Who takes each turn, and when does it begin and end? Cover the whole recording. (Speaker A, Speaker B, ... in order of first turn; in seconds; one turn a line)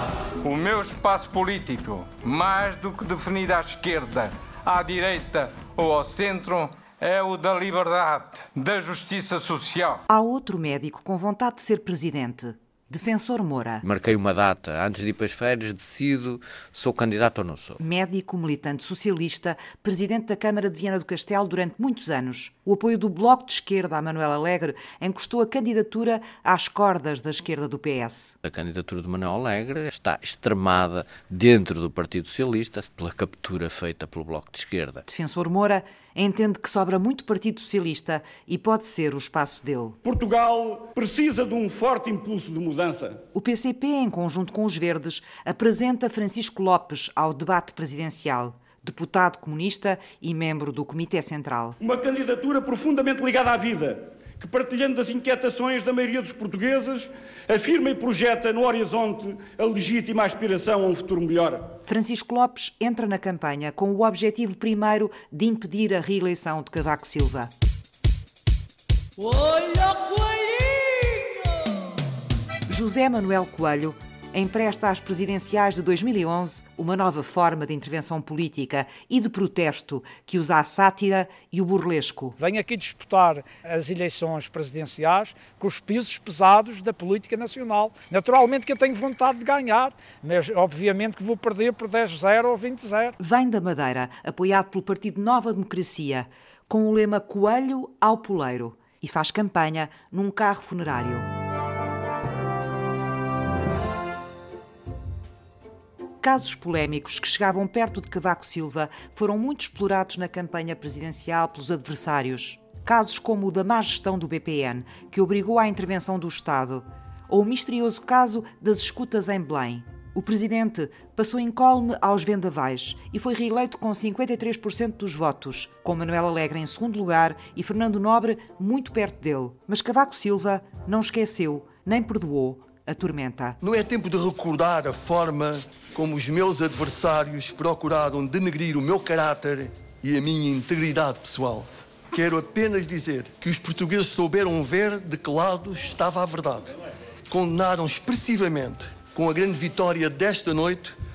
Speaker A: 0.4-10.0
Speaker B: 10.1-13.8
Speaker C: 13.8-17.8
Speaker B: 17.8-28.4
Speaker C: 28.4-35.0
Speaker B: 35.1-40.0
Speaker D: 40.0-43.2
Speaker B: 43.3-51.8
Speaker D: 51.8-61.6
Speaker B: 61.9-67.5
Speaker B: 72.7-82.4
Speaker E: 82.4-93.1
Speaker B: 93.2-101.3
Speaker B: 106.2-133.6
Speaker F: 133.6-146.7
Speaker F: 147.3-150.9